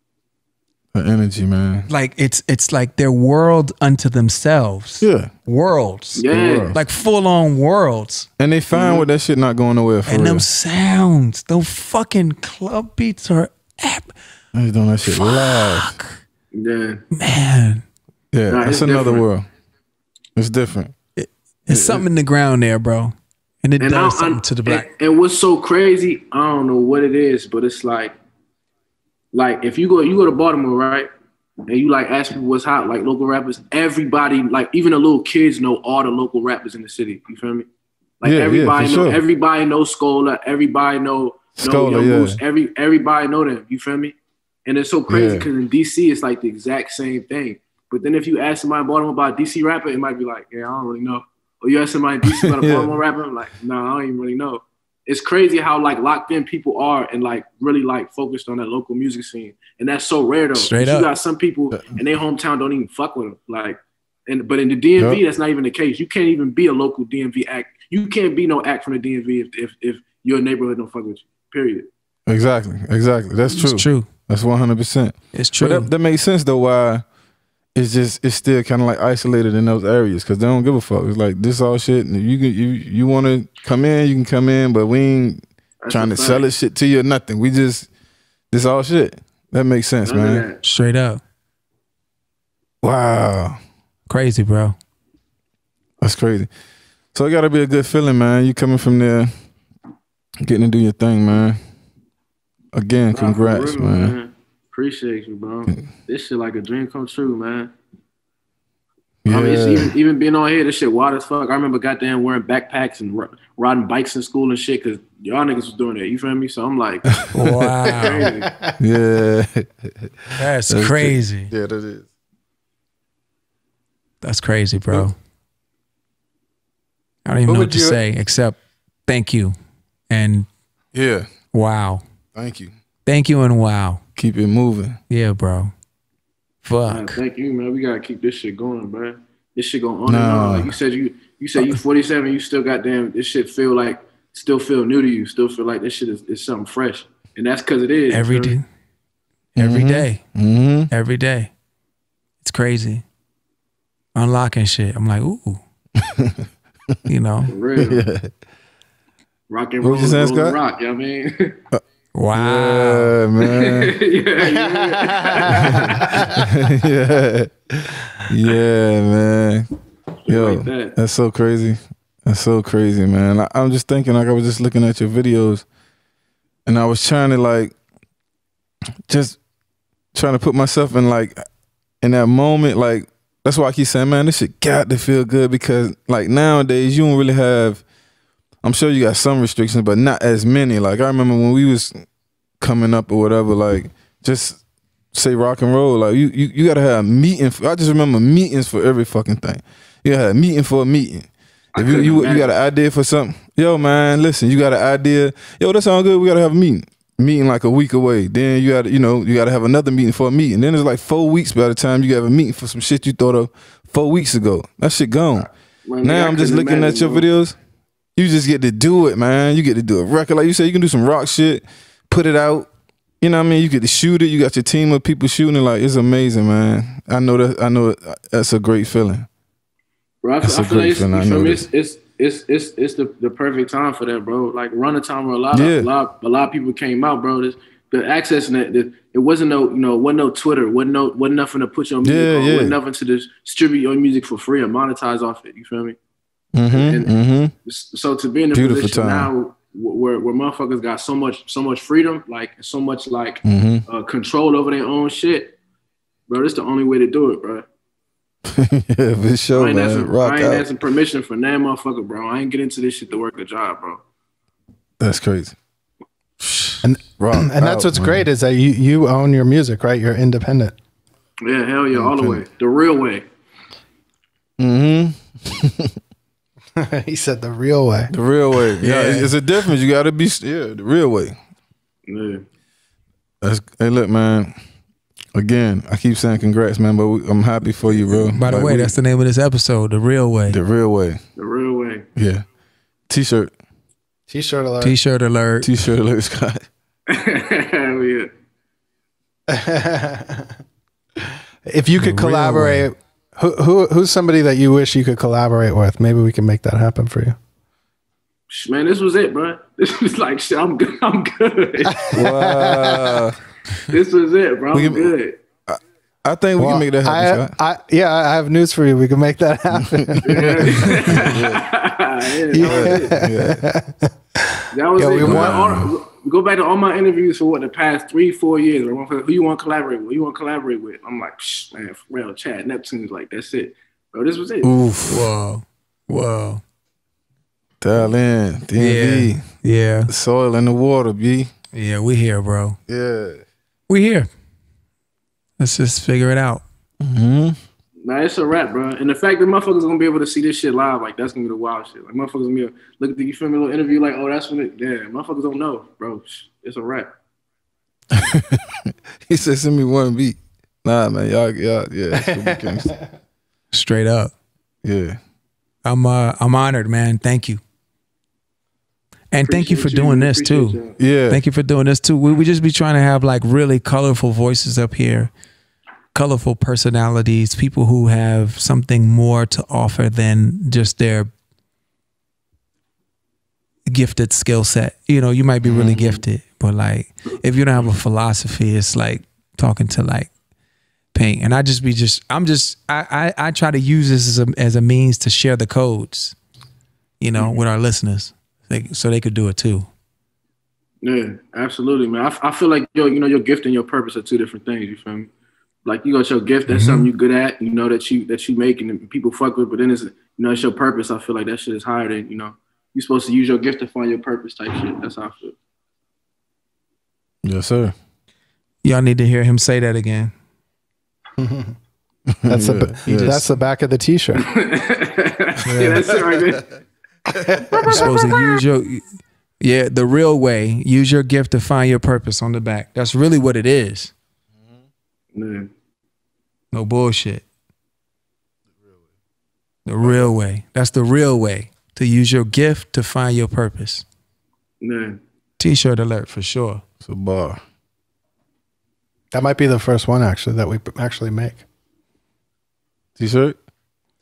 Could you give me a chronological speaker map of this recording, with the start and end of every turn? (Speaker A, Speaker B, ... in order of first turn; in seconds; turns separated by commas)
Speaker A: 0.9-1.9, Speaker B: 1.9-8.3, Speaker A: 5.0-5.3, Speaker C: 6.1-6.8, Speaker A: 6.3-6.8, Speaker A: 8.4-10.4, Speaker C: 8.7-9.1, Speaker B: 10.1-14.1, Speaker A: 14.5-15.9, Speaker B: 15.0-16.2, Speaker C: 16.5-17.0, Speaker B: 17.1-17.8, Speaker A: 18.3-19.5, Speaker C: 18.5-19.2, Speaker A: 20.4-20.9, Speaker B: 21.1-24.9, Speaker A: 21.7-22.0, Speaker C: 23.8-28.1, Speaker C: 29.3-31.1, Speaker C: 31.7-37.7, Speaker C: 38.2-71.9, Speaker A: 38.2-39.2, Speaker A: 41.6-42.4, Speaker A: 45.1-45.5, Speaker A: 52.2-53.0, Speaker B: 60.5-61.1, Speaker A: 72.3-77.0, Speaker B: 73.5-74.1, Speaker B: 75.3-75.9, Speaker A: 77.7-87.9, Speaker C: 85.8-86.5, Speaker A: 88.5-90.5, Speaker C: 90.0-90.6, Speaker B: 90.6-91.2, Speaker A: 92.8-93.6, Speaker B: 94.1-94.8, Speaker A: 96.0-96.5, Speaker A: 97.1-99.3, Speaker A: 100.4-101.6, Speaker A: 102.7-104.1, Speaker C: 103.1-107.7, Speaker A: 109.2-109.9, Speaker C: 109.3-117.2, Speaker A: 117.0-117.5, Speaker B: 117.3-118.2, Speaker C: 117.9-118.5, Speaker D: 118.0-118.7, Speaker A: 118.8-122.0, Speaker B: 120.4-121.5, Speaker B: 124.2-125.1, Speaker B: 127.2-129.5, Speaker D: 127.5-128.0, Speaker B: 130.1-130.5, Speaker A: 130.9-131.3, Speaker B: 131.5-132.0, Speaker A: 132.3-132.7, Speaker B: 133.1-134.0, Speaker A: 134.2-135.0, Speaker B: 135.1-135.7, Speaker B: 136.6-137.2, Speaker C: 136.9-148.6, Speaker A: 140.1-140.8, Speaker B: 148.1-148.6, Speaker B: 149.5-150.2, Speaker A: 149.6-150.9, Speaker B: 150.9-151.5, Speaker B: 152.4-153.0, Speaker B: 154.1-155.6, Speaker A: 156.0-156.4, Speaker B: 157.1-157.5, Speaker C: 157.5-158.0, Speaker A: 157.8-158.3, Speaker C: 159.5-161.6, Speaker A: 159.8-160.6, Speaker B: 162.1-163.2, Speaker A: 162.3-163.9, Speaker C: 163.4-166.2, Speaker A: 165.5-169.7, Speaker C: 170.2-170.9, Speaker A: 170.3-175.6, Speaker A: 176.7-177.7, Speaker A: 179.1-179.4, Speaker A: 180.1-181.4, Speaker A: 182.0-187.8, Speaker A: 188.6-192.0, Speaker A: 192.6-215.5, Speaker C: 201.7-202.6, Speaker C: 215.8-217.3, Speaker A: 216.0-217.6, Speaker A: 218.2-222.7, Speaker A: 223.2-229.3, Speaker C: 230.2-246.0, Speaker A: 230.4-231.6, Speaker A: 235.5-235.9, Speaker A: 242.0-242.8, Speaker A: 246.5-247.5, Speaker C: 246.7-255.6, Speaker A: 248.5-249.3, Speaker A: 253.4-253.8, Speaker C: 256.3-257.6, Speaker A: 258.5-260.7, Speaker C: 259.5-264.0, Speaker A: 265.0-265.6, Speaker A: 266.4-268.2, Speaker D: 266.8-270.7, Speaker C: 271.4-273.2, Speaker A: 271.9-272.4, Speaker A: 274.6-275.9, Speaker D: 276.8-279.4, Speaker A: 278.1-281.4, Speaker C: 282.1-282.4, Speaker A: 283.4-284.5, Speaker A: 285.3-288.9, Speaker B: 288.2-290.6, Speaker A: 290.5-291.2, Speaker C: 291.4-292.0, Speaker A: 292.1-292.4, Speaker A: 293.1-293.5, Speaker D: 294.3-295.0, Speaker B: 294.8-295.7, Speaker A: 295.6-296.7, Speaker C: 297.1-298.3, Speaker D: 299.5-300.5, Speaker D: 301.6-307.4, Speaker B: 302.0-302.9, Speaker C: 308.5-312.1, Speaker D: 311.9-313.2, Speaker A: 312.1-313.4, Speaker C: 313.9-315.4, Speaker A: 314.7-315.1, Speaker A: 315.7-317.5, Speaker D: 316.6-321.3, Speaker A: 320.1-321.6, Speaker C: 320.2-323.2, Speaker D: 322.5-325.9, Speaker A: 322.6-323.6, Speaker C: 324.7-334.7, Speaker A: 325.2-325.9, Speaker A: 334.6-335.3, Speaker B: 335.1-336.6, Speaker A: 337.8-339.4, Speaker B: 338.8-340.1, Speaker A: 340.1-341.5, Speaker B: 341.7-342.8, Speaker A: 342.9-343.4, Speaker B: 343.9-344.3, Speaker B: 345.6-346.6, Speaker A: 347.0-347.6, Speaker C: 348.0-357.1, Speaker A: 358.1-358.6, Speaker A: 359.2-362.9, Speaker D: 362.4-362.9, Speaker B: 363.7-364.3, Speaker A: 364.8-365.2, Speaker B: 365.8-367.6, Speaker B: 369.3-375.3, Speaker C: 369.4-370.9, Speaker A: 371.0-371.4, Speaker B: 376.1-381.3, Speaker B: 383.9-390.3, Speaker C: 385.6-386.2, Speaker B: 391.1-396.4, Speaker B: 397.2-399.9, Speaker C: 401.0-405.3, Speaker C: 405.8-415.5, Speaker B: 406.7-407.1, Speaker A: 417.4-417.9, Speaker B: 418.8-420.3, Speaker D: 421.4-421.7, Speaker A: 422.4-423.4, Speaker D: 422.4-424.4, Speaker B: 423.1-423.6, Speaker C: 424.5-426.7, Speaker B: 425.6-426.0, Speaker D: 427.3-428.0, Speaker C: 427.7-428.6, Speaker B: 427.9-429.0, Speaker B: 429.6-434.1, Speaker C: 435.3-435.7, Speaker B: 436.7-437.4, Speaker B: 439.9-444.0, Speaker C: 444.8-445.2, Speaker B: 445.6-446.8, Speaker A: 447.0-447.6, Speaker D: 449.3-451.6, Speaker A: 453.2-453.6